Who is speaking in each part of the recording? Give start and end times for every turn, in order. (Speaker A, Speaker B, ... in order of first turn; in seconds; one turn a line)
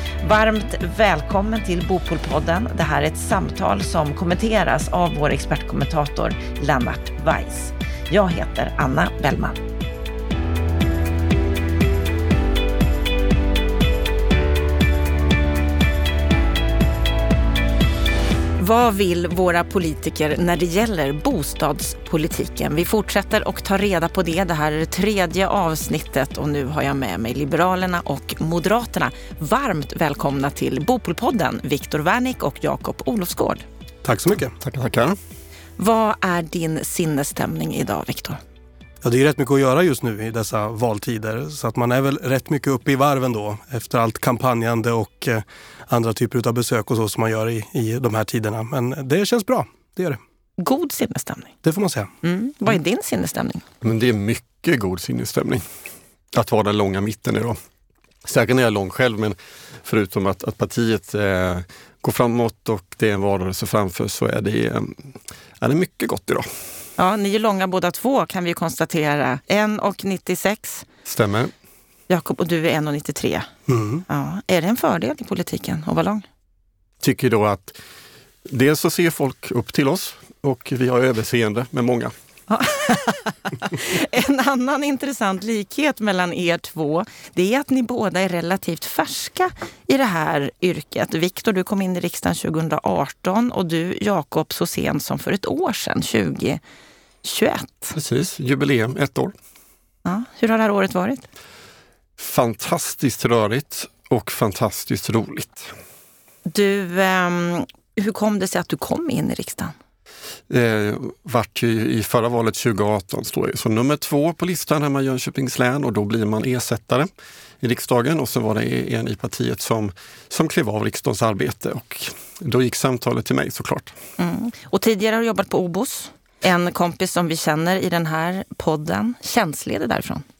Speaker A: 0.2-9.6
Speaker A: 18.6-33.6
Speaker B: 34.0-34.5
Speaker C: 34.6-35.2
Speaker A: 35.8-38.4
Speaker B: 39.0-50.2
Speaker A: 50.6-51.5
Speaker B: 51.6-52.1
Speaker A: 52.2-53.6
Speaker C: 53.8-55.6
Speaker C: 56.3-57.6
Speaker C: 58.2-66.5
Speaker A: 67.0-70.8
Speaker C: 71.0-71.5
Speaker A: 72.1-73.5
Speaker B: 73.7-74.0
Speaker A: 74.1-76.2
Speaker C: 77.0-77.7
Speaker C: 78.5-82.1
Speaker A: 82.5-96.6
Speaker A: 97.2-97.9
Speaker C: 97.9-99.3
Speaker A: 100.0-101.2
Speaker C: 102.2-105.7
Speaker A: 106.5-109.7
Speaker C: 110.5-117.1
Speaker C: 117.6-123.9
Speaker A: 124.2-130.2